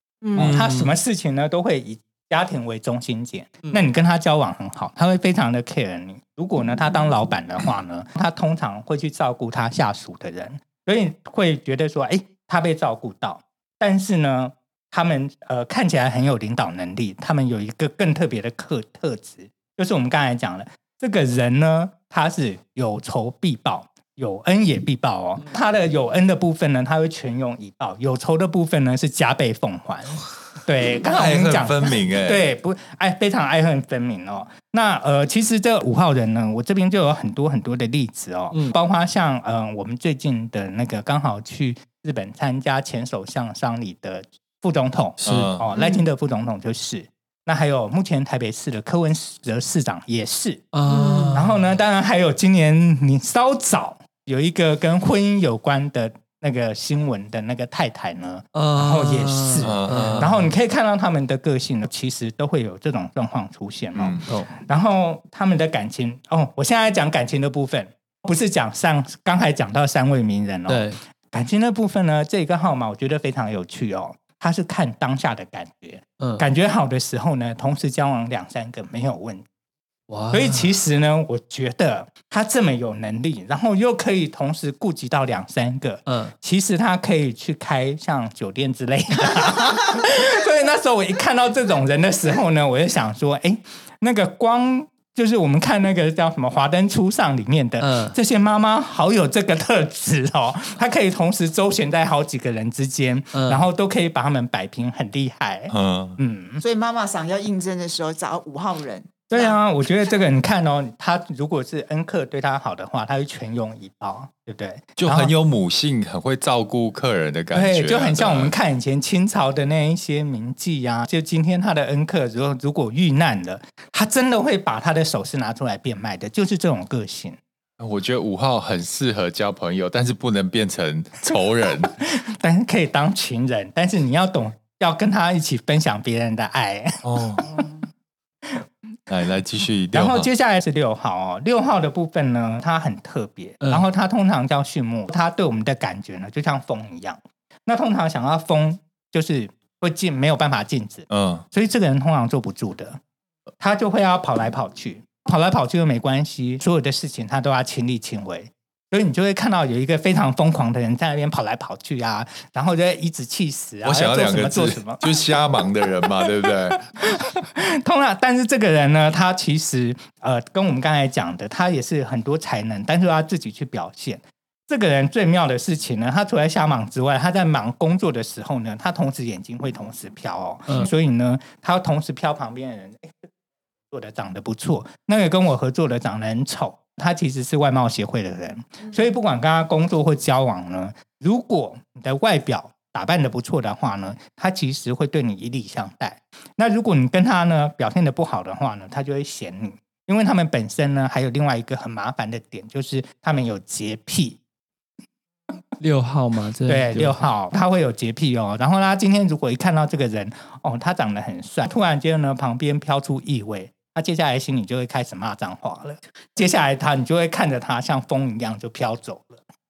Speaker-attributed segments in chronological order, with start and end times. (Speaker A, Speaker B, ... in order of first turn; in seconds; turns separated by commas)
Speaker A: 0.2-0.5, Speaker B: 0.3-50.6, Speaker C: 0.4-0.9, Speaker C: 31.0-32.4, Speaker C: 45.2-45.7, Speaker A: 45.7-46.0, Speaker D: 50.7-51.6, Speaker A: 50.9-51.4, Speaker B: 51.3-79.4, Speaker D: 58.5-60.5, Speaker C: 59.6-60.3, Speaker C: 63.9-64.2, Speaker D: 70.7-71.0, Speaker D: 76.2-76.5, Speaker D: 80.1-80.7, Speaker B: 80.3-106.6, Speaker D: 86.1-86.3, Speaker D: 97.8-98.2, Speaker D: 103.3-103.6, Speaker C: 105.7-106.2, Speaker A: 106.6-109.6, Speaker B: 109.3-115.3, Speaker C: 115.0-118.5, Speaker B: 117.5-127.4, Speaker C: 127.8-131.9, Speaker B: 132.0-137.6, Speaker C: 137.0-137.4, Speaker C: 139.1-140.3, Speaker B: 139.9-153.0, Speaker C: 151.1-151.4, Speaker B: 153.6-165.1, Speaker C: 163.8-166.8, Speaker B: 167.0-183.3, Speaker B: 183.9-204.4, Speaker D: 205.8-207.2, Speaker B: 206.7-219.4